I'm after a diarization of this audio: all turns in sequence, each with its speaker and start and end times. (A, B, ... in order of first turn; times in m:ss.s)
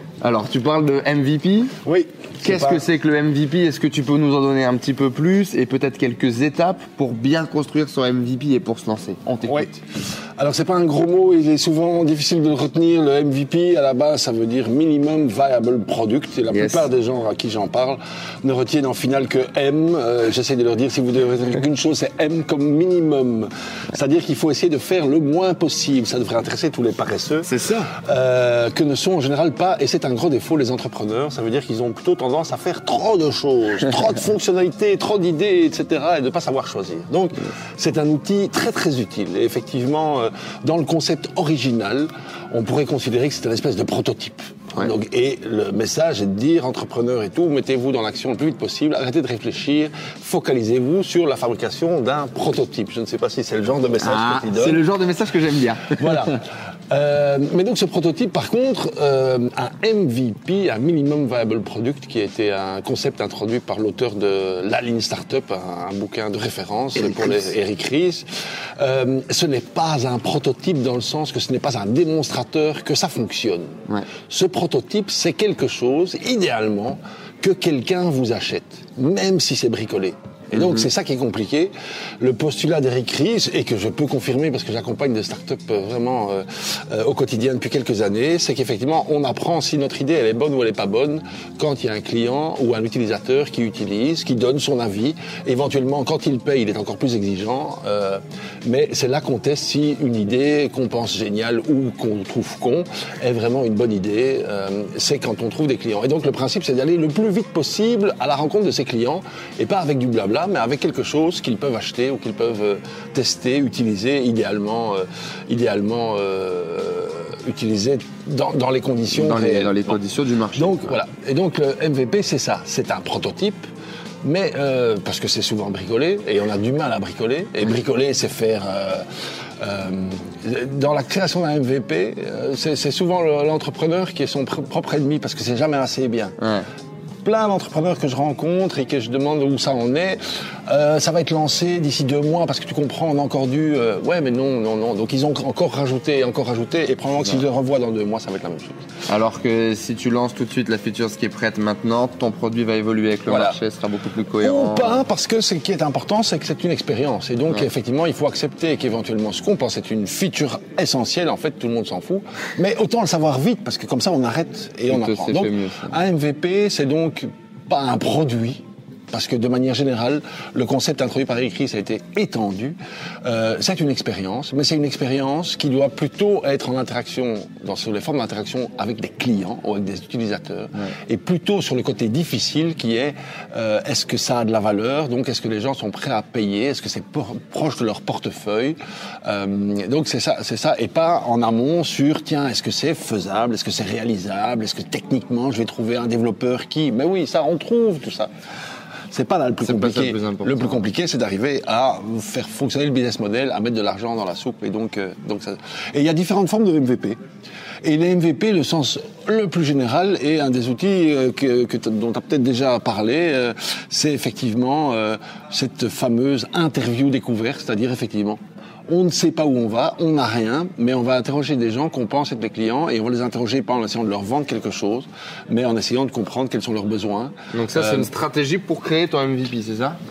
0:00.2-0:01.8 A
0:01.8-0:02.8 B
0:02.4-0:09.8 A
0:10.4-0:54.8 B
0:16.5-0:16.9 A
0:27.4-0:27.9 A
0:54.0-0:56.4 A
0:56.0-1:08.2 B
1:07.0-1:07.5 A
1:08.8-1:13.7 B
1:14.3-2:00.0 B
1:20.5-1:20.9 A
1:59.1-2:00.9 A
2:00.6-2:03.6 B
2:04.2-2:09.0 B
2:09.6-2:16.4 B
2:16.4-2:16.7 A
2:17.2-2:28.8 B
2:29.1-2:35.1 A
2:33.3-2:33.6 B
2:34.4-3:18.3 B
2:44.9-2:46.0 A
3:19.1-3:27.2 B
3:19.6-3:20.9 A
3:27.8-3:48.1 B
3:47.5-3:50.0 A